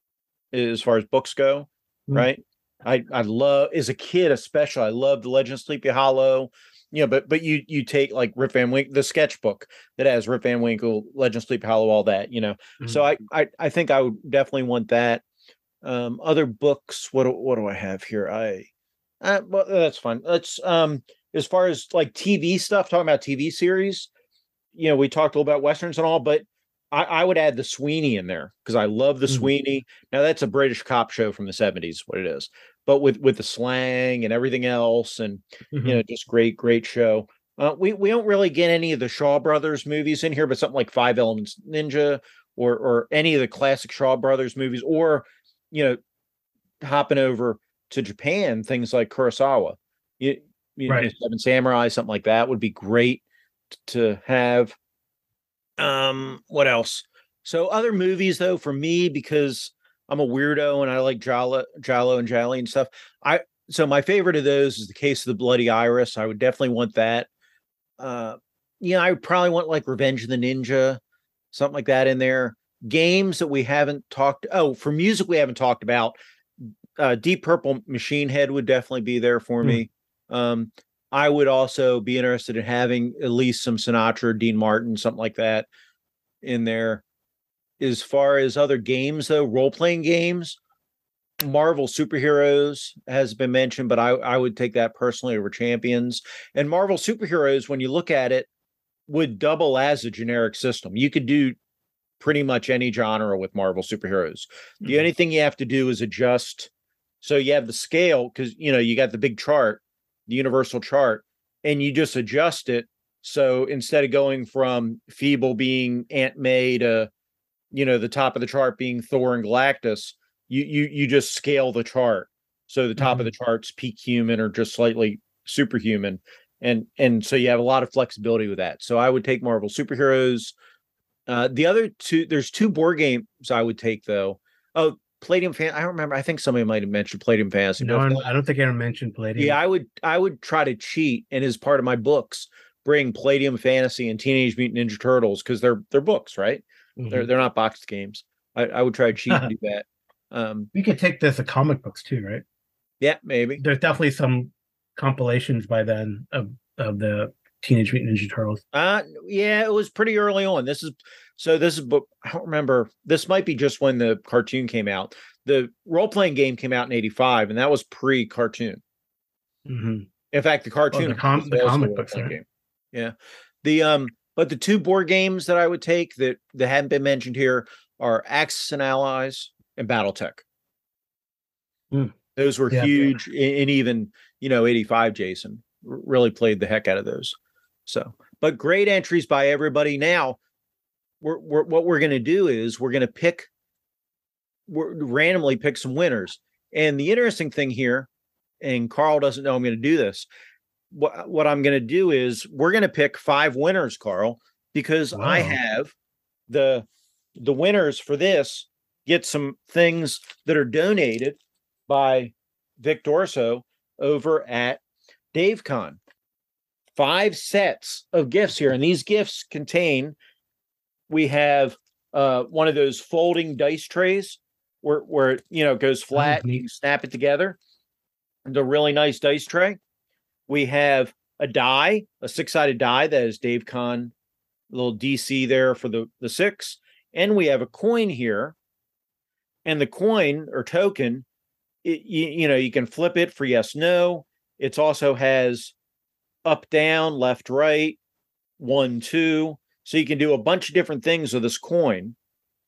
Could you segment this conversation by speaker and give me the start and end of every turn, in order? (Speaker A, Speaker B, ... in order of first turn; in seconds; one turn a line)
Speaker A: 0.5-15.2
Speaker A: 15.8-18.7
Speaker A: 19.2-24.1
Speaker A: 24.7-46.0
Speaker B: 35.7-36.0
Speaker A: 46.8-53.2
Speaker A: 53.7-54.8
Speaker A: 55.8-67.3
Speaker A: 68.0-71.0
Speaker A: 71.5-85.7
Speaker A: 86.4-87.0
Speaker A: 87.8-90.6
Speaker A: 91.4-98.5
Speaker A: 99.1-101.6
Speaker A: 102.2-106.7
Speaker B: 104.8-105.1
Speaker A: 107.2-117.1
Speaker A: 117.7-130.6
Speaker B: 123.0-123.3
Speaker A: 131.3-138.3
Speaker B: 137.8-139.6
Speaker A: 139.4-150.7
Speaker B: 147.0-147.3
Speaker B: 150.7-152.4
Speaker A: 153.0-153.6
Speaker B: 153.6-158.6
Speaker A: 158.7-168.8
Speaker B: 169.7-170.1
Speaker A: 170.3-180.4
Speaker B: 170.9-172.4
Speaker A: 182.4-190.4
Speaker B: 182.7-183.1
Speaker A: 191.2-193.5
Speaker A: 194.7-198.1
Speaker A: 198.6-200.3
Speaker A: 200.9-205.9
Speaker B: 205.1-205.6
Speaker A: 206.5-214.8
Speaker A: 215.3-216.0
Speaker A: 216.9-220.2
Speaker A: 221.1-227.6
Speaker B: 226.2-226.6
Speaker A: 228.4-229.8
Speaker A: 230.5-234.1
Speaker A: 234.7-238.6
Speaker A: 239.7-241.3
Speaker A: 241.8-245.7
Speaker A: 246.4-248.0
Speaker A: 248.6-252.2